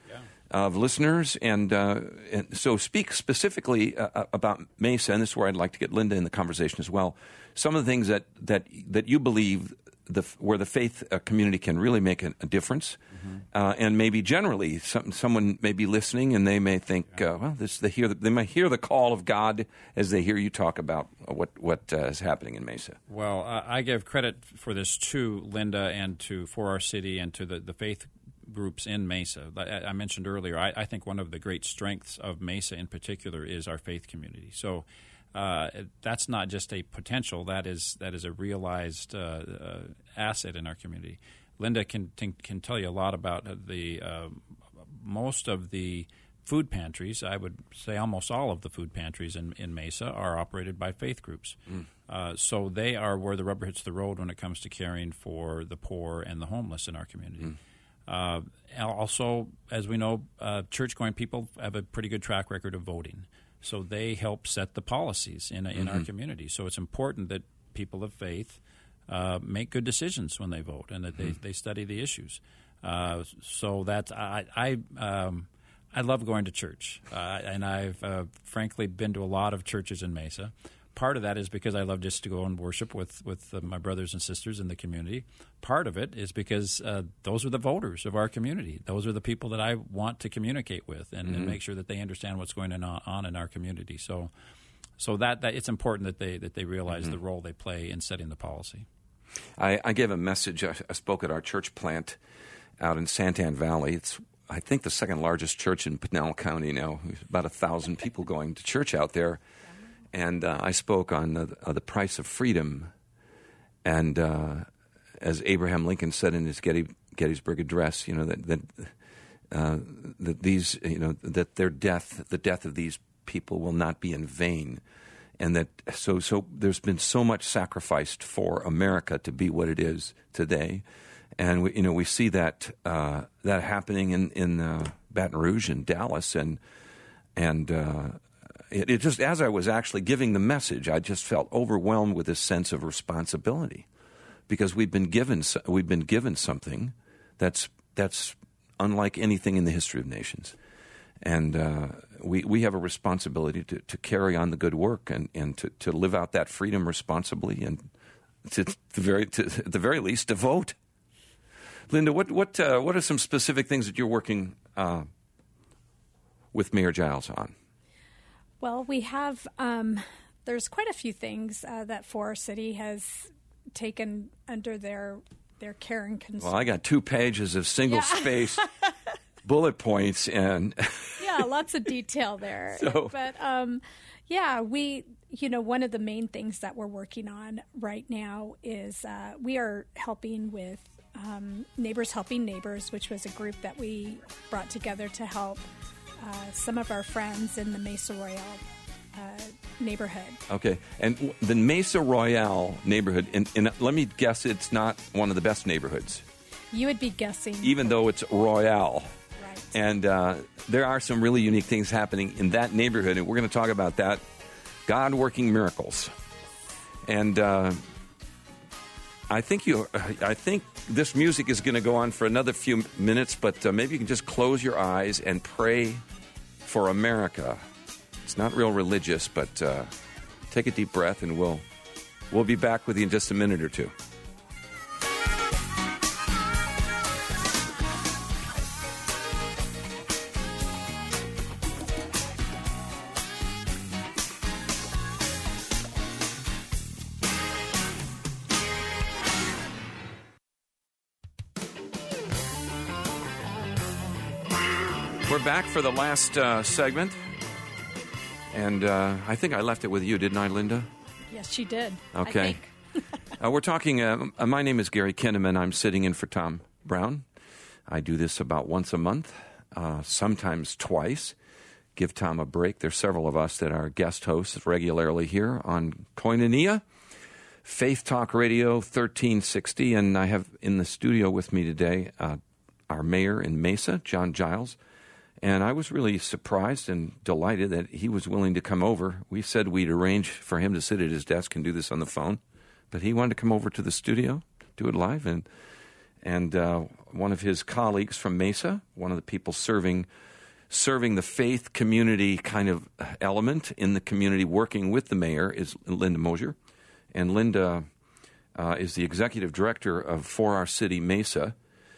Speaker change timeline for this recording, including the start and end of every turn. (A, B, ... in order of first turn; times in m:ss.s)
0:00.5-0:13.0 A
0:13.5-0:23.0 A
0:23.1-1:34.3 B
1:31.3-1:31.6 A
1:35.0-1:38.9 B
1:39.6-1:42.2 A
1:42.8-1:49.4 A
1:50.1-1:52.9 A
1:53.8-1:54.7 A
1:55.2-1:58.9 A
1:59.5-2:04.8 A
2:05.4-2:10.8 A
2:11.4-2:16.6 A
2:17.4-2:23.9 A
2:24.5-2:30.6 A
2:31.2-2:37.8 A
2:38.4-2:40.8 A
2:41.9-2:45.1 A
2:46.5-2:47.5 A
2:48.6-2:56.6 C
2:56.4-2:58.7 A
2:57.9-2:58.9 C
2:59.4-3:01.4 A
3:01.2-3:15.6 C
3:02.7-3:03.1 A
3:16.2-3:18.6 C
3:19.1-3:20.4 C
3:20.5-3:26.2 A
3:26.7-3:27.8 C
3:27.6-3:29.1 A
3:29.4-3:29.7 C
3:29.7-3:34.2 A
3:34.9-3:36.1 A
3:37.1-3:37.8 A
3:39.3-3:46.0 A
3:46.6-3:47.6 A
3:48.2-3:49.9 A
3:50.5-3:51.6 A
3:52.3-3:53.9 A
4:15.3-4:17.2 A
4:18.5-4:20.9 A
4:21.3-4:23.0 C
4:22.1-4:22.6 A
4:23.4-4:27.2 A
4:27.9-4:31.4 A
4:32.0-4:36.8 A
4:37.6-4:44.8 A
4:45.4-4:52.4 A
4:52.9-4:55.5 A
4:56.2-5:00.1 A
5:00.7-5:06.6 A
5:07.1-5:07.9 A
5:08.6-5:11.6 A